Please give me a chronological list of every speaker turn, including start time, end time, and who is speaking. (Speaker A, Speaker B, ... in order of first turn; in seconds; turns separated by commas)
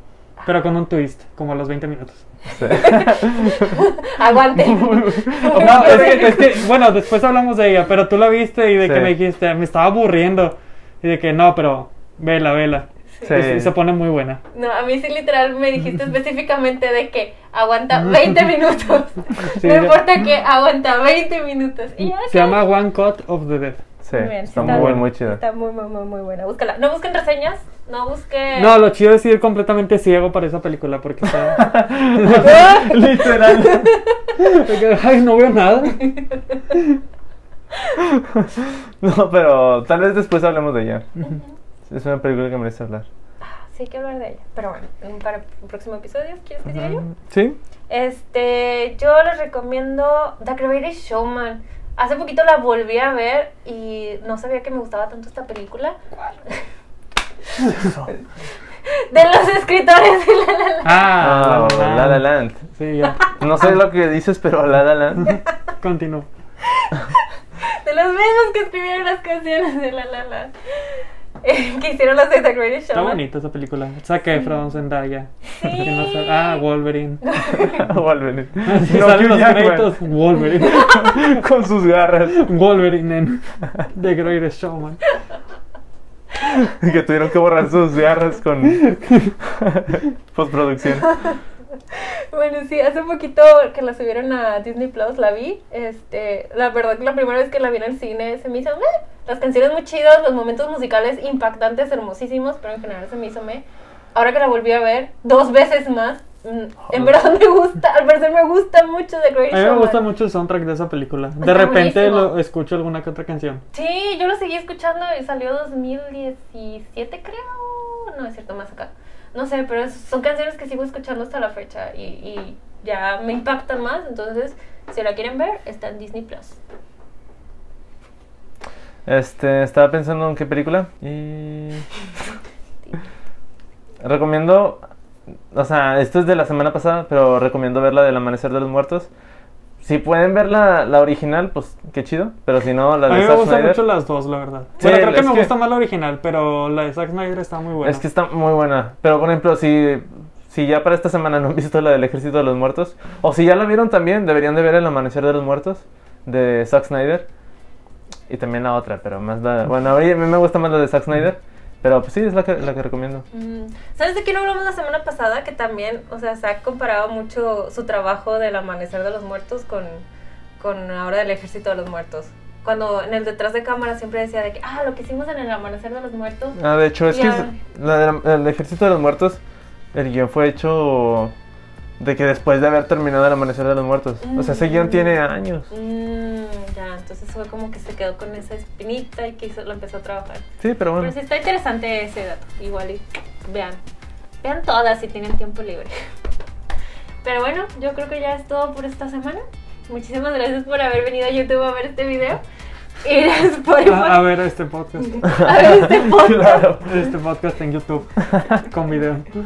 Speaker A: 0.4-2.2, Speaker B: 2.4-6.6, Speaker C: 2.5-3.8, Speaker C: 4.5-6.4, Speaker A: 5.5-14.4, Speaker C: 8.8-9.1, Speaker C: 13.2-13.7, Speaker B: 14.5-22.6, Speaker A: 19.6-20.0, Speaker A: 22.3-23.8, Speaker C: 24.0-25.4, Speaker B: 24.1-28.7, Speaker A: 24.5-25.0, Speaker A: 28.6-32.9, Speaker C: 31.5-33.9, Speaker B: 32.6-34.3, Speaker A: 34.4-36.2, Speaker C: 38.1-41.1, Speaker C: 41.9-43.1, Speaker B: 43.4-47.0, Speaker C: 47.2-47.6, Speaker B: 47.9-56.0, Speaker B: 58.8-61.2, Speaker A: 60.8-63.7, Speaker C: 61.2-62.6, Speaker C: 63.3-65.3, Speaker A: 65.3-66.3, Speaker B: 66.8-70.5, Speaker B: 71.4-73.2, Speaker A: 72.9-77.2, Speaker B: 75.5-76.6, Speaker B: 77.2-77.8, Speaker C: 77.5-80.0, Speaker A: 78.7-81.4, Speaker C: 80.6-82.4, Speaker A: 82.3-85.0, Speaker C: 86.4-88.9, Speaker A: 88.8-89.3, Speaker C: 89.4-91.1, Speaker B: 91.0-91.4, Speaker B: 91.9-103.6, Speaker B: 104.1-110.0, Speaker A: 109.5-113.6, Speaker B: 111.4-112.3, Speaker B: 113.7-126.6, Speaker C: 129.0-131.8, Speaker C: 134.0-134.8, Speaker C: 135.5-139.1, Speaker C: 139.8-143.8, Speaker A: 143.1-148.0, Speaker C: 144.8-145.5, Speaker C: 147.8-157.3, Speaker C: 158.3-163.2, Speaker B: 163.3-170.0, Speaker B: 170.6-177.6, Speaker C: 176.6-179.4, Speaker C: 179.9-181.3, Speaker C: 182.0-185.7, Speaker B: 184.2-190.4, Speaker C: 190.6-191.1, Speaker B: 191.0-193.8, Speaker B: 194.4-195.9, Speaker B: 197.2-202.4, Speaker B: 203.0-204.3, Speaker A: 203.8-205.4, Speaker B: 205.0-206.7, Speaker C: 205.4-206.9, Speaker A: 206.8-209.3